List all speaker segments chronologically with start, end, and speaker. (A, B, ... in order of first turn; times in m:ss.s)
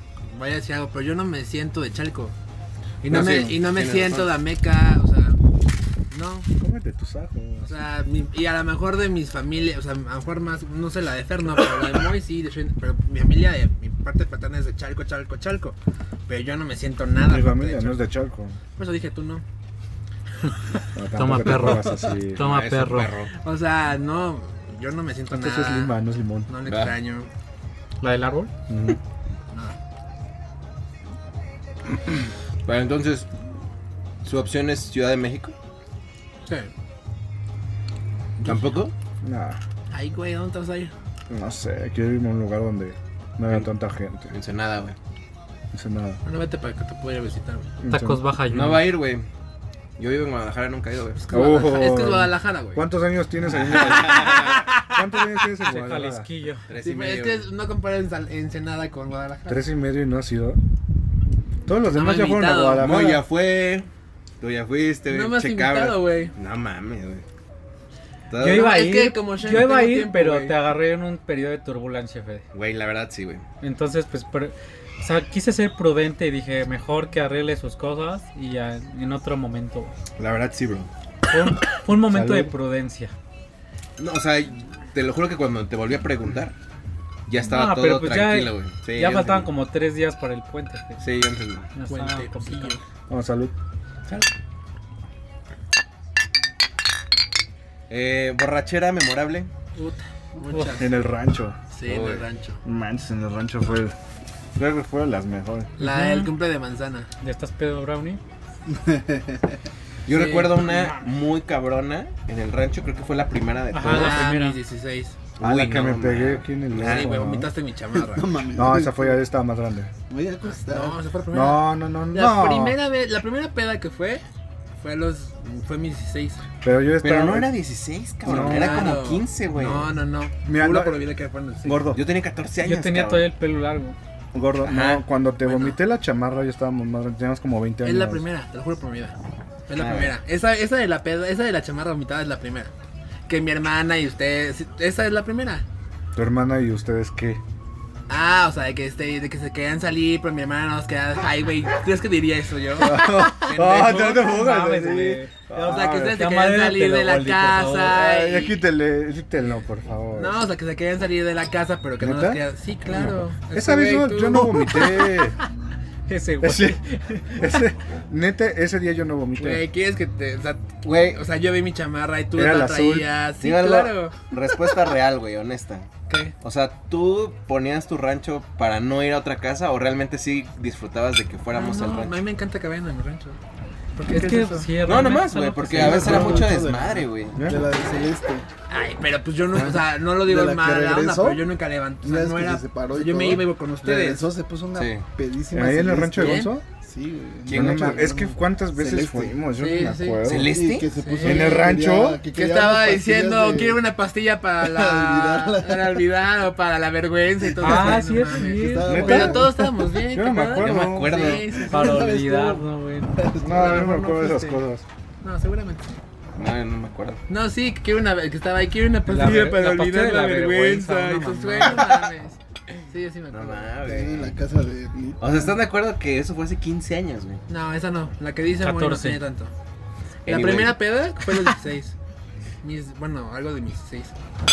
0:00.2-0:02.3 A
0:03.0-0:05.4 A
0:03.1-0:04.3 B
0:06.1-0:06.5 A
0:06.6-0:07.7 C
0:07.6-0:15.8 A
0:16.3-0:18.0 A
0:17.3-0:18.6 C
0:18.8-0:19.4 A
0:20.9-0:22.4 C
0:21.1-0:23.1 D
0:22.4-0:23.3 B
0:23.4-0:25.9 A
0:25.3-0:26.5 C
0:26.5-0:27.3 A
0:26.6-0:26.9 B
0:28.0-0:28.5 D
0:28.7-0:29.0 C
0:32.6-0:33.3 B
0:34.2-0:35.5 B
0:36.4-0:36.7 A
0:38.4-0:38.9 B
0:39.2-0:39.6 C
0:39.9-0:40.9 A
0:41.3-0:44.3 C
0:44.3-0:45.0 B
0:45.7-0:46.2 C
0:46.2-0:47.7 A
0:47.8-0:48.2 C
0:47.9-0:48.9 D
0:48.5-0:49.3 B
0:50.0-0:51.3 B
0:51.2-0:52.8 A
0:51.3-0:56.3 C
0:53.5-0:54.6 B
0:53.7-0:55.0 A
0:55.6-0:56.7 D
0:56.7-0:57.5 B
0:56.8-0:59.6 A
0:59.5-1:00.6 C
1:01.6-1:03.2 C
1:01.9-1:02.9 A
1:02.8-1:03.9 B
1:04.4-1:07.2 B
1:05.1-1:06.3 A
1:08.3-1:08.7 B
1:08.4-1:12.4 D
1:08.4-1:10.6 A
1:12.5-1:13.4 B
1:13.6-1:19.9 D
1:20.2-1:20.9 B
1:21.3-1:23.1 D
1:21.9-1:22.5 C
1:24.0-1:26.5 B
1:27.3-1:29.5 B
1:27.4-1:31.0 D
1:31.0-1:31.7 B
1:31.7-1:32.8 D
1:31.9-1:32.8 A
1:33.1-1:33.5 C
1:37.9-1:39.5 B
1:39.8-1:40.9 A
1:40.5-1:40.8 D
1:40.7-1:41.6 C
1:41.7-1:42.6 A
1:41.8-1:42.3 B
1:42.6-1:43.9 C
1:44.5-1:45.7 C
1:45.8-1:47.1 A
1:45.8-1:46.3 D
1:47.2-1:48.2 D
1:48.7-1:49.5 E
1:50.0-1:54.2 B
1:50.1-1:51.0 A
1:53.7-1:54.6 D
1:53.8-1:55.2 A
1:55.4-1:57.2 B
1:55.4-1:57.5 C
1:56.8-1:58.3 A
1:57.9-1:59.2 E
1:58.5-1:59.9 C
2:00.1-2:01.0 E
2:00.4-2:04.2 A
2:01.3-2:02.8 C
2:04.8-2:06.4 A
2:06.6-2:07.5 C
2:07.0-2:09.9 B
2:08.2-2:08.9 C
2:08.2-2:11.9 A
2:10.5-2:11.0 C
2:11.6-2:12.0 C
2:11.9-2:13.3 B
2:12.6-2:14.0 D
2:14.3-2:18.2 C
2:14.6-2:15.0 B
2:15.4-2:15.8 A
2:17.8-2:19.2 A
2:19.7-2:22.7 A
2:19.7-2:20.1 B
2:23.3-2:25.6 A
2:26.1-2:27.4 C
2:28.1-2:34.3 A
2:32.8-2:36.2 C
2:33.0-2:38.0 D
2:35.5-2:38.6 A
2:37.9-2:40.4 C
2:40.1-2:45.1 A
2:42.0-2:45.4 C
2:46.1-2:47.4 D
2:46.4-2:49.6 C
2:49.4-2:54.2 A
2:50.8-2:51.2 B
2:52.4-2:53.1 C
2:53.4-3:02.2 B
2:56.1-2:56.3 A
3:01.5-3:03.4 A
3:04.0-3:04.8 A
3:04.0-3:06.5 D
3:04.8-3:07.4 B
3:05.7-3:08.5 E
3:07.4-3:07.6 C
3:08.7-3:14.3 A
3:10.2-3:11.5 E
3:12.0-3:19.4 E
3:14.7-3:15.0 B
3:15.5-3:16.6 C
3:16.2-3:16.5 A
3:17.4-3:18.1 B
3:17.5-3:20.5 C
3:19.6-3:20.3 A
3:20.2-3:20.9 B
3:20.3-3:23.8 E
3:21.0-3:21.7 A
3:21.2-3:22.2 C
3:22.3-3:32.2 A
3:24.6-3:26.0 E
3:27.6-3:29.2 D
3:27.6-3:29.6 E
3:28.8-3:31.4 C
3:30.6-3:31.6 B
3:31.4-3:33.9 E
3:31.7-3:33.2 D
3:33.4-3:34.6 A
3:33.4-3:34.8 C
3:35.2-3:35.9 A
3:36.4-3:37.2 B
3:37.3-3:39.8 A
3:39.1-3:41.9 D
3:40.7-3:42.4 A
3:41.6-3:42.1 B
3:42.9-3:43.8 A
3:43.3-3:44.4 B
3:43.8-3:45.5 E
3:45.2-3:47.4 B
3:47.5-3:49.5 A
3:48.6-3:49.2 D
3:50.2-3:50.8 B
3:50.2-3:51.9 A
3:52.6-3:54.1 A